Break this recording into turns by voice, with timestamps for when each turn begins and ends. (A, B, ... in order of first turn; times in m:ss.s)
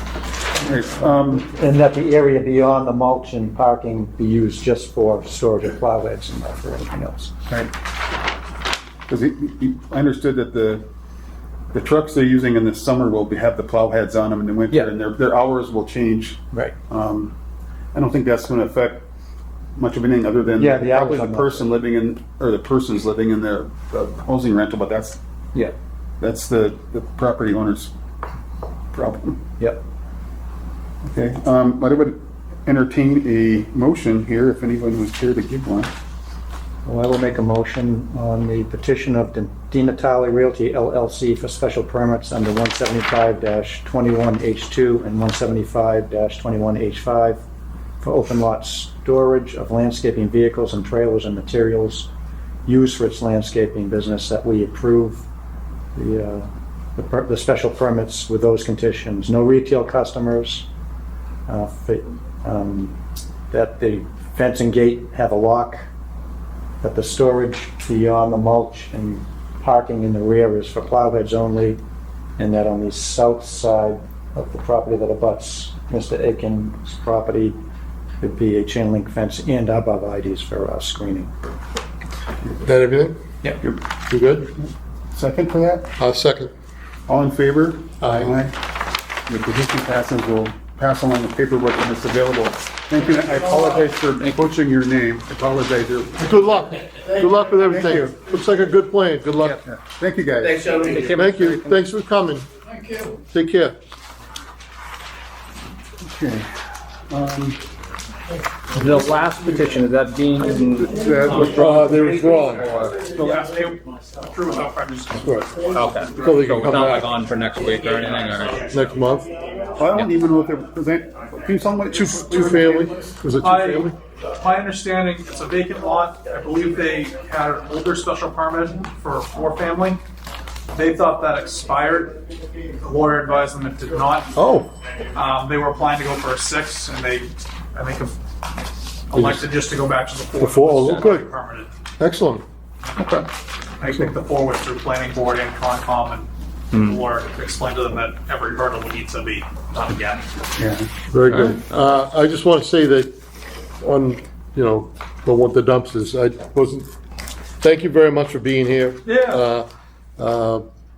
0:00.6-0:01.5 A
0:01.4-0:07.3 B
0:09.1-0:10.9 A
0:11.7-0:17.4 A
0:17.9-0:19.1 A
0:19.8-0:25.2 A
0:20.6-0:21.7 B
0:26.2-0:27.9 A
0:28.9-0:29.4 A
0:31.0-0:35.9 A
0:36.8-0:47.4 B
0:48.0-0:52.1 B
0:52.7-0:55.3 B
0:56.0-1:00.7 B
1:01.5-1:03.0 B
1:03.5-1:05.8 B
1:06.8-1:11.8 B
1:12.4-1:17.6 B
1:18.2-1:21.3 B
1:22.6-1:23.2 C
1:24.1-1:24.5 C
1:25.1-1:25.9 A
1:26.0-1:26.5 C
1:27.1-1:28.6 A
1:28.0-1:28.4 C
1:29.3-1:36.3 A
1:36.2-1:39.6 C
1:37.6-1:38.2 A
1:39.6-1:41.0 A
1:40.4-1:41.8 D
1:41.1-1:42.5 C
1:43.3-1:43.8 C
1:46.0-1:46.6 A
1:47.1-1:47.6 A
1:48.7-1:53.4 D
1:50.8-1:51.8 A
1:51.1-1:51.6 E
1:51.5-1:52.8 C
1:53.0-1:55.8 E
1:55.2-1:55.5 C
1:55.7-1:58.6 D
1:56.2-1:57.1 C
1:58.6-1:59.3 C
1:59.8-2:03.1 A
2:01.9-2:03.9 C
2:03.4-2:10.0 E
2:10.7-2:12.2 E
2:12.8-2:14.4 E
2:14.4-2:14.7 C
2:15.1-2:18.2 E
2:19.1-2:21.7 E
2:20.4-2:21.3 C
2:22.0-2:22.4 C
2:23.8-2:30.3 E
2:26.7-2:27.0 D
2:30.6-2:30.9 A
2:31.1-2:33.1 C
2:31.3-2:31.6 D
2:33.8-2:36.9 C
2:37.6-2:40.7 C
2:39.0-2:39.4 E